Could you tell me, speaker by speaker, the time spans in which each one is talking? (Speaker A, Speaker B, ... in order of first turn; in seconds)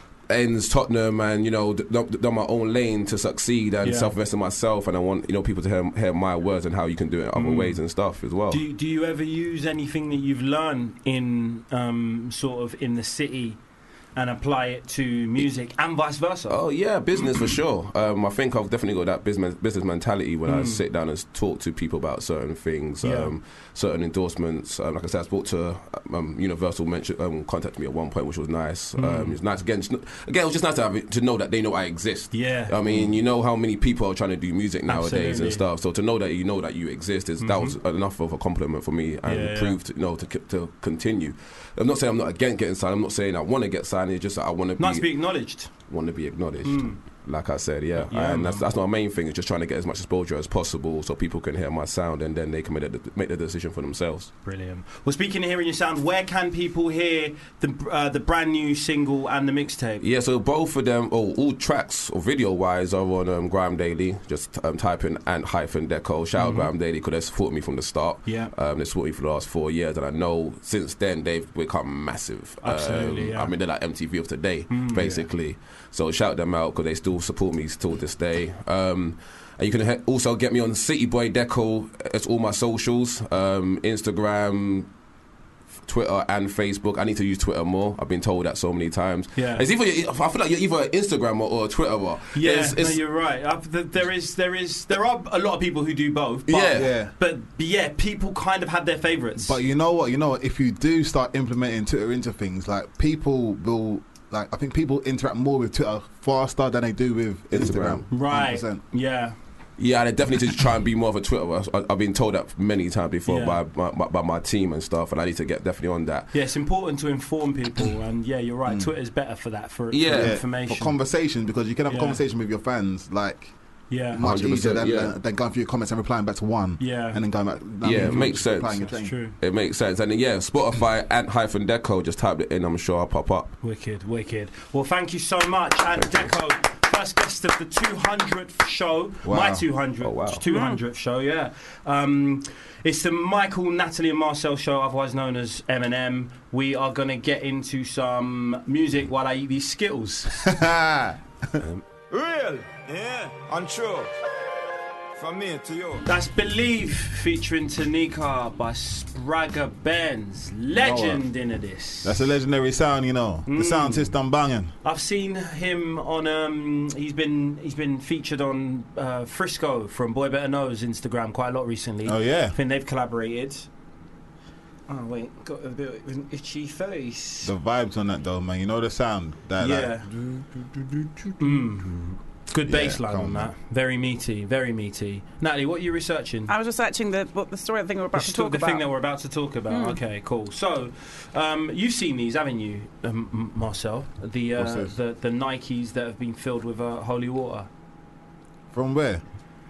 Speaker A: 0.3-8.6, 16.5-54.3, 60.0-84.9, 85.9-93.0, 96.5-96.9, 107.5-108.1, 109.8-116.3, 119.9-120.4, 124.2-125.1, 127.8-133.5, 136.0-136.3, 140.0-140.4
Speaker B: 3.8-4.1, 7.3-7.8, 8.5-13.6, 14.2-16.6, 20.5-20.8, 23.0-23.3, 29.0-29.4, 32.3-32.7, 34.9-35.6, 37.4-37.8, 39.2-39.8, 44.8-45.7, 46.6-47.0, 48.0-48.6, 54.5-60.0, 66.4-66.7, 68.2-68.5, 72.6-73.5, 74.7-75.3, 89.4-89.6, 92.3-99.6, 108.1-109.3, 113.3-113.6, 116.3-121.0, 121.9-122.2, 123.9-124.2, 126.8-127.2, 127.9-129.3, 133.6-150.5, 156.1-162.3, 163.5-164.1, 164.8-173.7, 174.9-177.5, 179.6-180.1, 181.4-186.5, 188.1-197.7
Speaker C: 32.9-33.1, 96.7-97.1, 99.4-108.8, 118.7-118.9, 120.1-123.5, 124.1-129.2, 139.2-139.7, 150.4-151.6, 160.7-161.3, 162.0-164.7, 172.1-172.6, 177.4-180.4, 182.7-183.5, 194.6-194.9, 198.7-199.2
Speaker D: 140.4-140.8, 186.5-188.9, 189.7-190.0
Speaker E: 152.1-154.1, 155.2-156.0